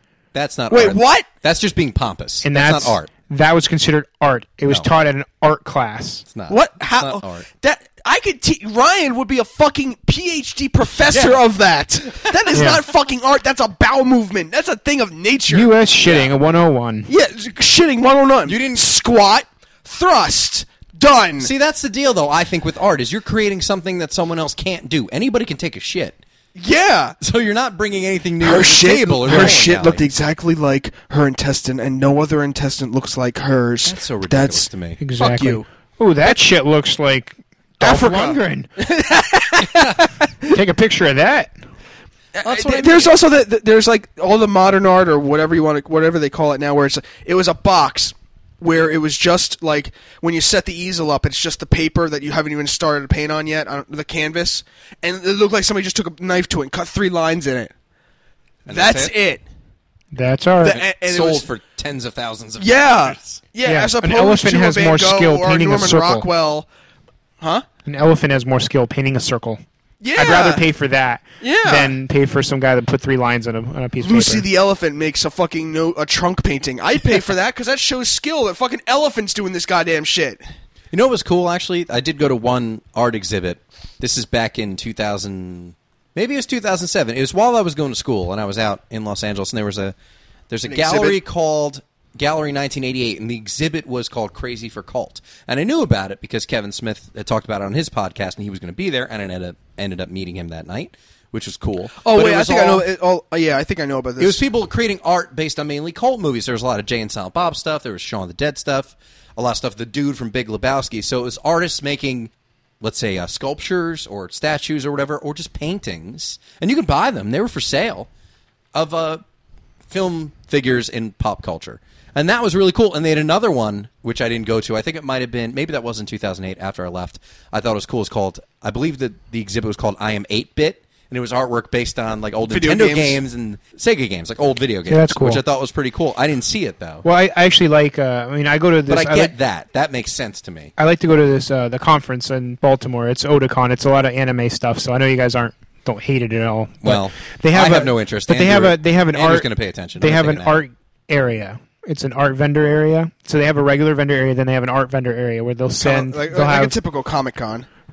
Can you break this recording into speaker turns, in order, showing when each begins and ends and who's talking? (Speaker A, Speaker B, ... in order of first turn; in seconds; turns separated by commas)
Speaker A: 0.3-3.1, Speaker B: 0.7-1.3, Speaker C: 2.4-6.2, Speaker A: 6.3-7.4, Speaker B: 6.5-15.7, Speaker A: 11.0-11.4, Speaker C: 12.5-12.8, Speaker C: 15.5-17.1, Speaker A: 16.0-16.3, Speaker B: 17.1-21.5, Speaker A: 18.4-18.8, Speaker A: 21.4-26.2, Speaker B: 26.6-27.2, Speaker A: 27.2-30.0, Speaker B: 28.4-35.6, Speaker C: 29.3-29.6, Speaker A: 33.8-35.0, Speaker C: 35.0-38.7, Speaker B: 37.8-40.5, Speaker C: 40.4-41.5, Speaker B: 42.3-57.7, Speaker A: 42.4-43.2, Speaker A: 58.6-59.1, Speaker B: 58.7-59.4, Speaker C: 60.1-60.8, Speaker B: 60.6-61.5, Speaker A: 61.0-63.4, Speaker B: 62.6-66.7, Speaker C: 63.6-66.2, Speaker C: 67.8-69.6, Speaker B: 70.0-70.6, Speaker C: 70.2-74.5, Speaker B: 71.4-71.9, Speaker B: 74.0-80.4, Speaker A: 80.9-89.9, Speaker A: 90.5-102.8, Speaker B: 90.7-91.2, Speaker B: 102.0-104.4, Speaker A: 104.2-118.1, Speaker A: 118.7-119.2, Speaker A: 119.9-137.0, Speaker B: 132.5-133.2, Speaker C: 134.9-135.4, Speaker C: 137.0-139.3, Speaker A: 138.9-140.7, Speaker C: 140.8-156.8, Speaker A: 146.8-150.6, Speaker B: 155.8-157.7